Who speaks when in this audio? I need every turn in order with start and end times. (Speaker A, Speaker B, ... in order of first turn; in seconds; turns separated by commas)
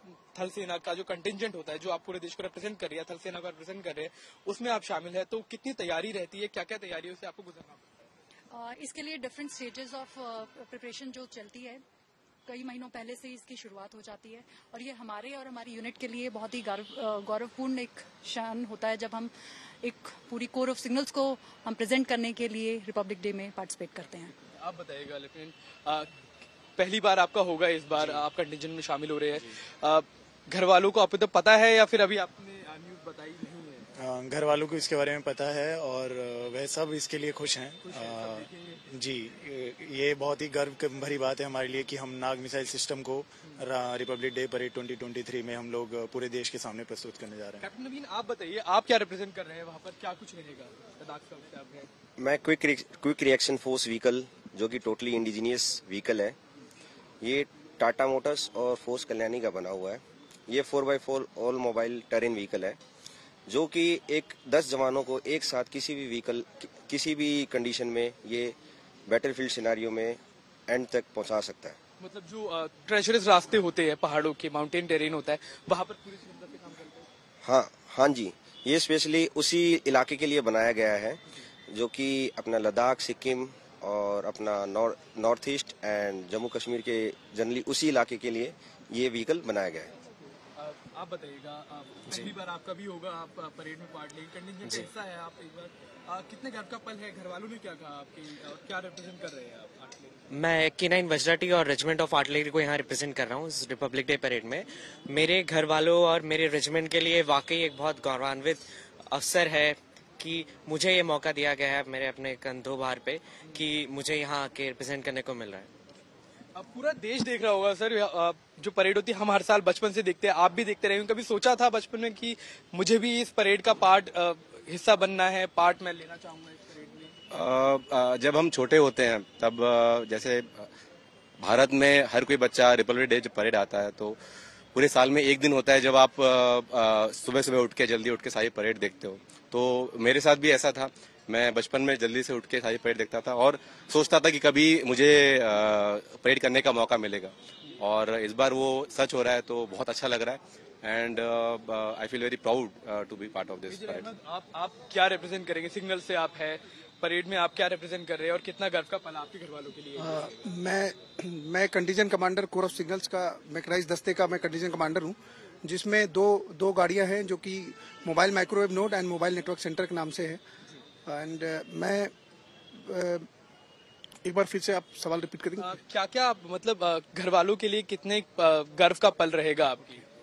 Speaker A: 0.3-7.8, Speaker B: 8.5-11.8, Speaker B: 12.4-24.3, Speaker A: 24.6-26.1, Speaker A: 26.8-33.9, Speaker C: 34.0-47.6, Speaker A: 37.8-38.8, Speaker A: 47.6-51.9, Speaker D: 52.2-56.3, Speaker D: 57.2-62.8, Speaker D: 63.5-68.5, Speaker D: 69.1-71.8, Speaker A: 72.0-77.0, Speaker D: 77.4-89.9, Speaker A: 90.6-100.2, Speaker E: 100.3-115.7, Speaker A: 116.5-127.1, Speaker F: 127.5-130.4, Speaker F: 131.4-134.1, Speaker F: 134.7-147.3, Speaker F: 148.0-154.0, Speaker A: 153.7-160.3, Speaker G: 160.0-170.4, Speaker G: 171.1-172.1, Speaker G: 172.8-173.3, Speaker G: 174.2-175.7, Speaker A: 175.6-180.0